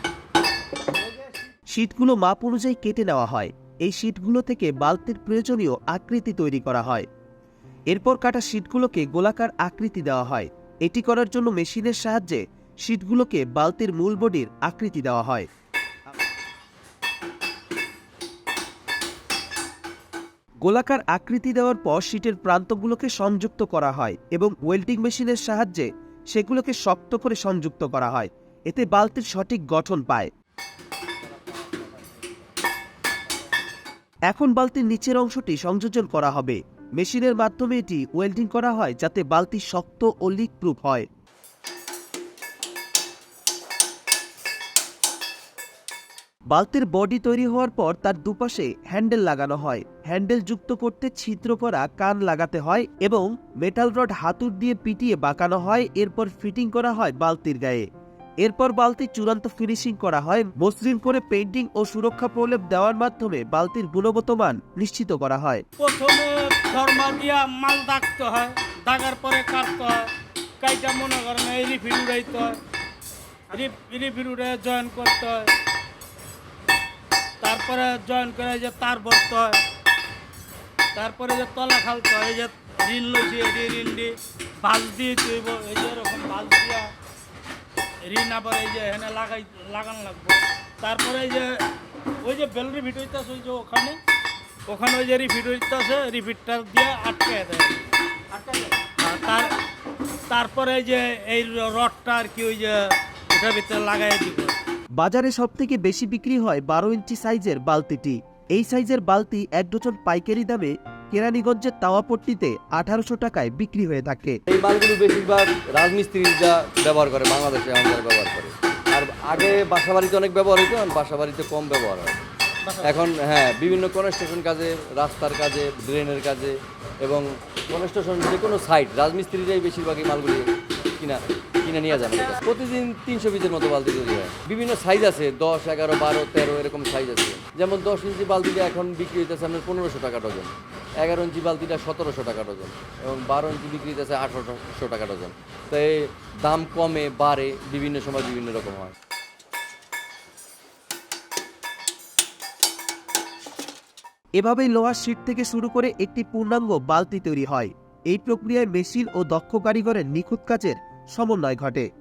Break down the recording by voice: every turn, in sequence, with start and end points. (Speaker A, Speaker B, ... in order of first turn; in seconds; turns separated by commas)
Speaker A: 1.7-7.0, Speaker A: 7.9-15.5, Speaker A: 20.6-30.3, Speaker A: 34.3-41.0, Speaker A: 46.5-57.8, Speaker A: 58.4-65.6, Speaker B: 65.8-70.1, Speaker B: 70.6-72.6, Speaker B: 73.5-75.5, Speaker B: 77.4-79.6, Speaker B: 81.0-86.9, Speaker B: 88.0-91.6, Speaker B: 92.2-94.0, Speaker B: 94.7-99.5, Speaker B: 100.3-104.6, Speaker A: 105.0-114.4, Speaker C: 114.5-122.2, Speaker B: 122.6-123.0, Speaker C: 122.8-148.9, Speaker A: 154.4-161.8